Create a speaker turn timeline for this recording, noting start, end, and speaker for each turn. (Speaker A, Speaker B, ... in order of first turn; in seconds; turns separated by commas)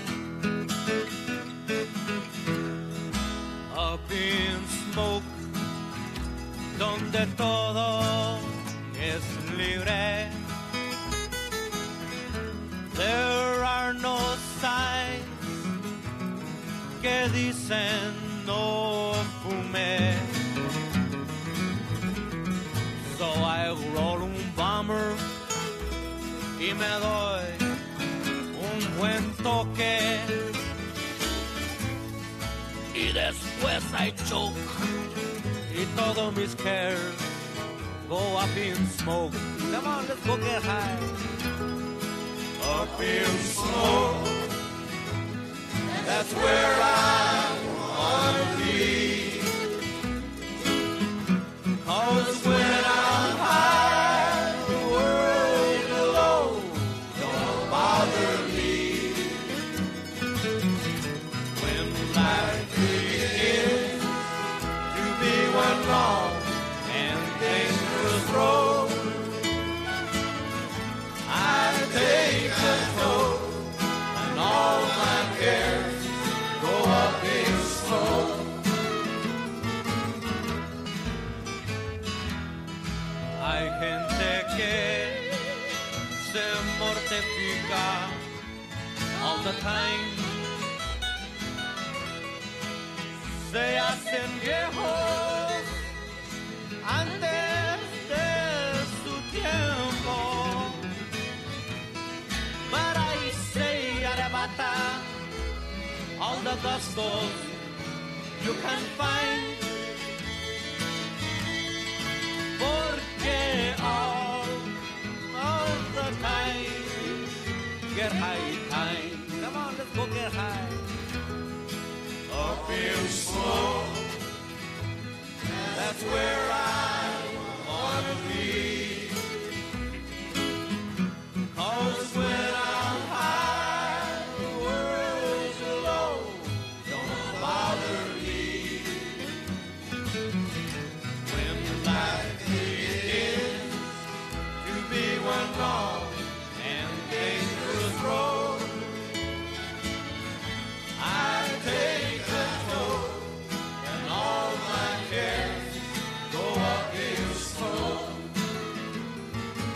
Speaker A: 3.7-5.4, Speaker A: 6.8-10.4, Speaker A: 12.9-15.6, Speaker A: 17.0-20.4, Speaker A: 23.0-25.3, Speaker A: 26.6-27.7, Speaker A: 28.5-30.5, Speaker A: 33.5-34.2, Speaker A: 35.7-37.3, Speaker A: 38.0-41.2, Speaker A: 42.6-44.4, Speaker A: 46.0-49.5, Speaker A: 51.8-59.5, Speaker A: 61.5-64.2, Speaker A: 64.9-69.4, Speaker A: 71.3-78.5, Speaker A: 83.4-85.4, Speaker A: 86.2-88.2, Speaker A: 89.2-90.5, Speaker A: 93.3-95.7, Speaker A: 96.8-100.9, Speaker A: 102.7-105.1, Speaker A: 106.2-107.6, Speaker A: 108.4-109.8, Speaker A: 112.6-114.7, Speaker A: 115.3-117.3, Speaker A: 117.9-120.9, Speaker A: 122.3-124.1, Speaker A: 125.5-129.2, Speaker A: 131.5-139.2, Speaker A: 141.2-144.0, Speaker A: 144.6-149.0, Speaker A: 151.0-158.2